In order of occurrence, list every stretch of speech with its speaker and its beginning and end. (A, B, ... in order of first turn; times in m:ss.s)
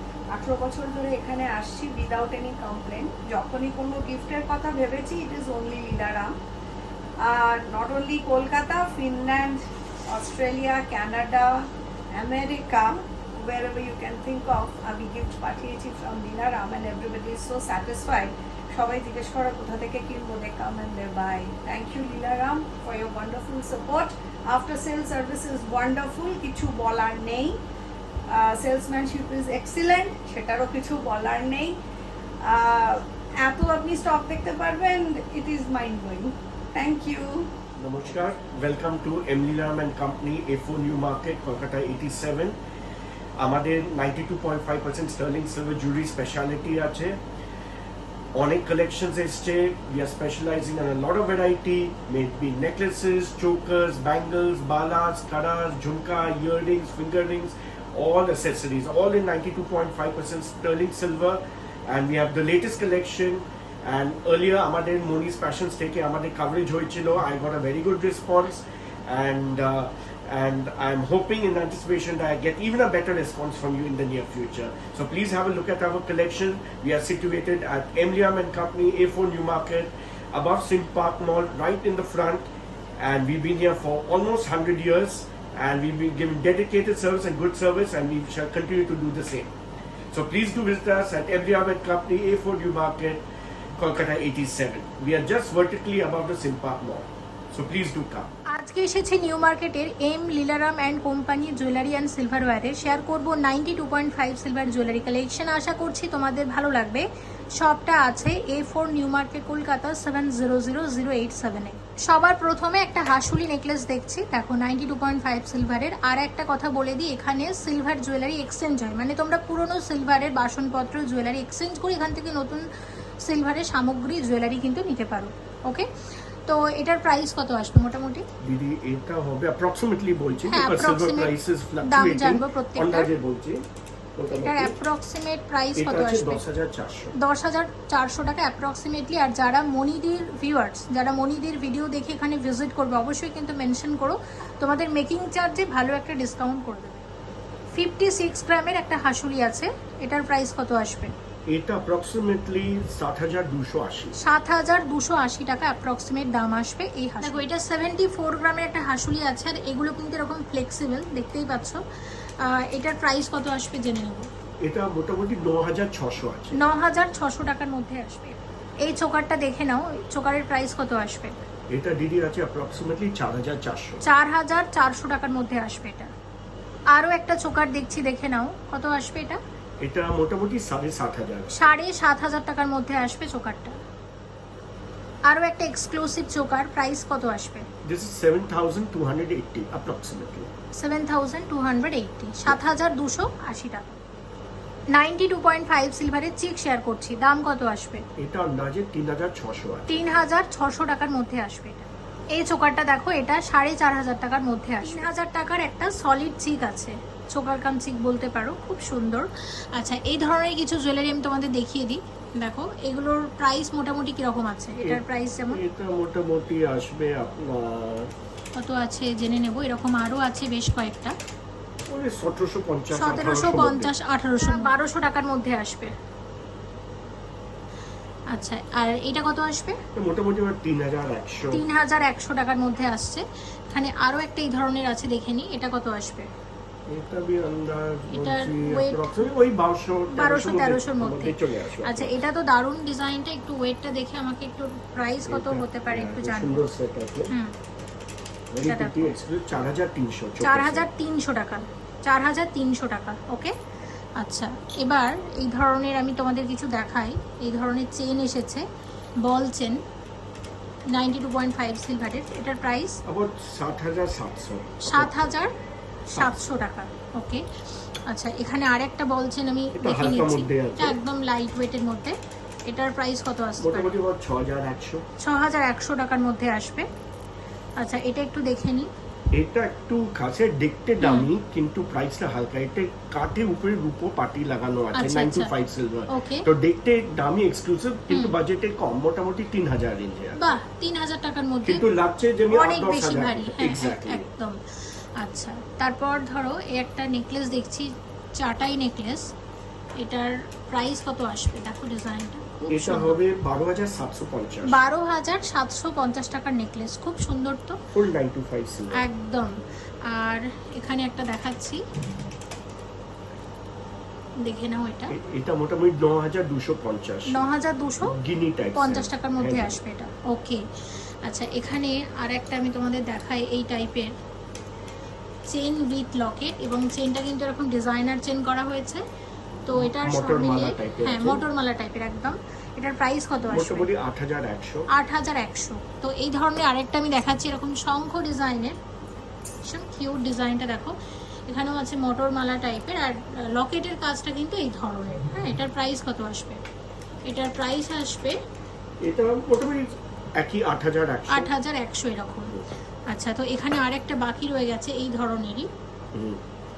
0:00.3-0:06.3 A
0:07.2-0:27.6 A
0:28.3-0:31.8 A
0:32.4-0:37.5 A
0:37.8-0:42.6 B
0:43.4-0:47.2 B
0:48.3-1:29.5 B
1:30.1-1:33.2 B
1:33.8-1:38.3 B
1:38.5-2:02.6 C
2:03.2-2:05.9 C
2:06.4-2:08.2 C
2:08.4-2:13.6 B
2:10.5-2:13.1 C
2:14.2-2:14.8 B
2:14.3-2:16.4 C
2:15.8-2:17.1 B
2:17.2-2:27.0 C
2:27.7-2:31.1 C
2:31.5-2:34.1 B
2:34.2-2:44.3 C
2:44.6-2:46.6 B
2:46.5-2:51.3 C
2:51.7-2:54.0 B
2:54.0-2:56.1 C
2:56.9-2:59.4 C
2:59.8-3:01.5 B
3:01.5-3:03.8 C
3:05.2-3:07.6 C
3:07.8-3:10.5 B
3:10.7-3:14.0 C
3:14.9-3:18.0 C
3:18.2-3:20.0 B
3:19.9-3:35.6 C
3:34.8-3:38.1 B
3:38.6-3:41.1 C
3:41.9-3:43.9 B
3:42.9-3:45.9 C
3:48.3-3:49.8 C
3:49.9-3:51.6 B
3:51.5-3:56.3 C
3:56.9-4:02.2 B
3:58.1-3:59.3 C
4:00.1-4:06.7 C
4:05.2-4:07.3 B
4:08.5-4:10.8 B
4:08.6-4:09.1 C
4:10.4-4:13.5 C
4:14.2-4:18.6 C
4:19.2-4:19.8 C
4:20.9-4:23.0 C
4:23.0-4:25.3 B
4:24.8-4:25.5 C
4:26.1-4:27.4 C
4:26.2-4:26.5 B
4:28.1-4:32.1 C
4:29.7-4:31.0 B
4:32.6-4:34.0 C
4:33.6-4:35.0 B
4:35.2-4:36.8 C
4:37.8-4:38.9 C
4:39.3-4:50.4 B
4:41.0-4:41.3 C
4:44.9-4:45.5 C
4:46.1-4:46.5 C
4:50.4-4:51.8 C
4:51.6-4:54.3 B
4:52.5-4:54.6 C
4:55.2-4:59.3 C
5:00.0-5:03.2 C
5:02.7-5:04.8 B
5:04.7-5:07.8 C
5:07.9-5:09.1 B
5:08.9-5:09.5 C
5:10.1-5:11.8 C
5:14.4-5:15.1 C
5:15.1-5:17.5 B
5:17.3-5:18.2 C
5:18.0-5:19.8 B
5:18.7-5:20.6 C
5:21.2-5:24.1 C
5:25.5-5:29.0 C
5:29.6-5:33.9 C
5:29.8-5:31.4 B
5:33.5-5:34.9 B
5:34.9-5:38.8 C
5:39.6-5:40.9 C
5:41.5-5:46.6 C
5:47.2-5:48.4 C
5:49.0-5:51.5 B
5:51.3-5:52.6 C
5:53.1-5:55.7 C
5:56.1-5:56.4 B